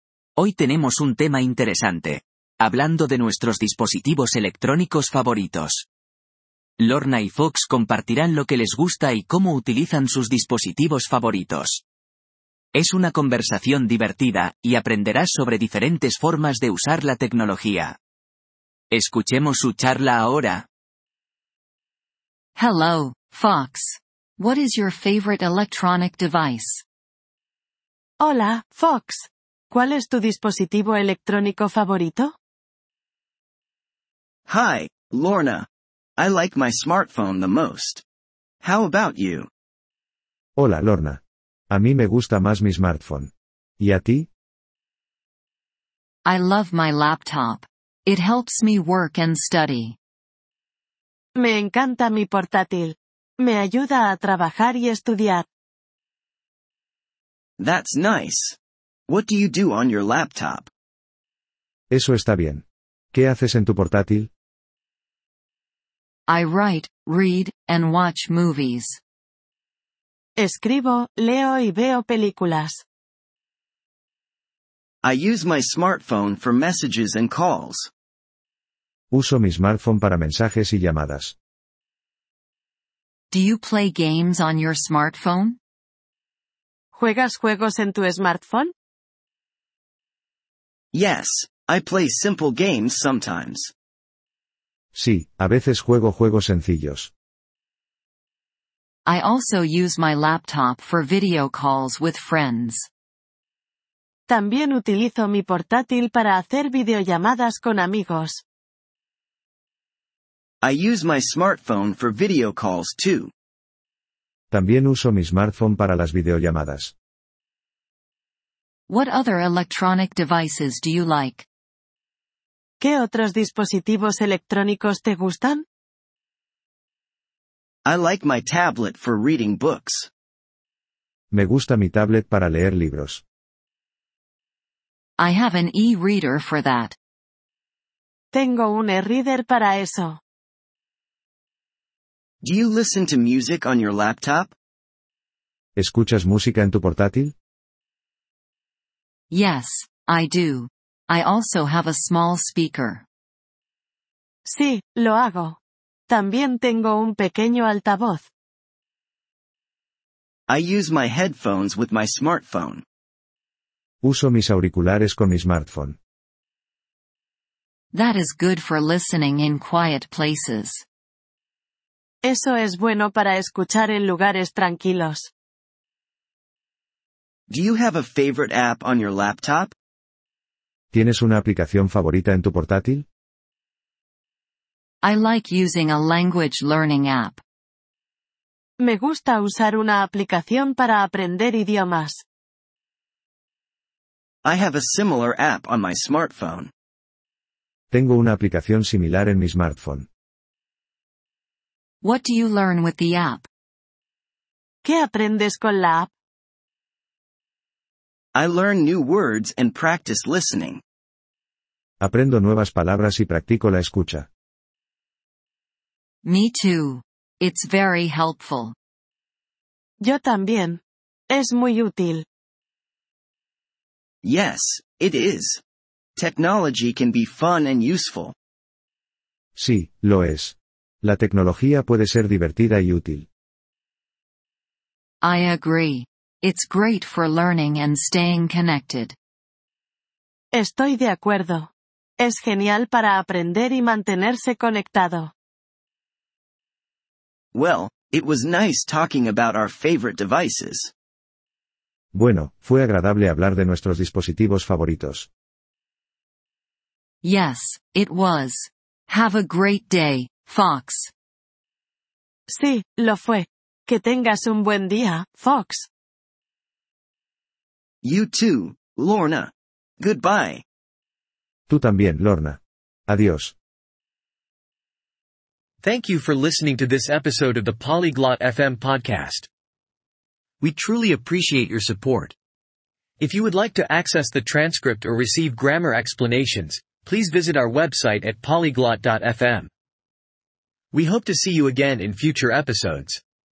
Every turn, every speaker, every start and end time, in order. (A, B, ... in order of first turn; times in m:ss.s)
0:00.4-0:05.8 A
0:06.8-0:11.8 A
0:12.7-0:18.0 A
0:18.9-0:20.6 A
0:22.6-0:26.8 B
0:28.2-0:32.3 C
0:34.5-0:38.0 D
0:38.6-0:39.5 D
0:40.6-0:41.2 E
0:41.7-0:44.3 E
0:46.2-0:50.0 B
0:51.4-0:55.4 C
0:57.6-0:58.6 D
0:59.1-1:00.7 D
1:01.9-1:04.3 E
1:06.3-1:09.0 B
1:10.4-1:12.8 C
1:15.0-1:17.9 D
1:19.1-1:21.3 E
1:23.3-1:25.6 B
1:26.9-1:28.7 C
1:30.9-1:33.7 D
1:34.9-1:37.1 E
1:39.0-1:42.9 B
1:44.3-1:48.4 C
1:50.6-1:53.3 D
1:54.5-1:56.9 E
1:58.9-2:01.4 B
2:02.8-2:05.6 C
2:07.8-2:10.1 D
2:11.3-2:13.2 E
2:15.2-2:17.0 B
2:18.3-2:20.2 C
2:22.4-2:24.5 D
2:25.8-2:27.3 E
2:29.3-2:33.0 B
2:34.4-2:35.6 C
2:36.1-2:38.3 C
2:40.5-2:42.8 D
2:44.0-2:46.0 E
2:47.9-2:50.8 B
2:52.2-2:55.3 C
2:57.5-2:59.7 D
3:00.9-3:03.0 E
3:05.0-3:07.4 B
3:08.8-3:12.2 C
3:14.4-3:16.7 D
3:17.9-3:20.1 E
3:22.0-3:23.4 B
3:24.8-3:26.1 C
3:28.3-3:30.8 D
3:32.0-3:34.3 E
3:36.2-3:38.7 B
3:40.0-3:40.8 C
3:41.3-3:42.2 C
3:44.2-3:45.6 D
3:46.2-3:48.3 D
3:49.6-3:53.3 E
3:55.2-3:59.2 B
4:00.5-4:05.3 C
4:07.5-4:10.9 D
4:12.1-4:15.3 E
4:17.2-4:21.1 B
4:22.5-4:25.9 C
4:28.0-4:30.6 D
4:31.7-4:33.5 E
4:35.8-4:39.5 F
4:40.6-4:42.3 F
4:43.2-4:49.7 F
4:50.9-4:53.2 F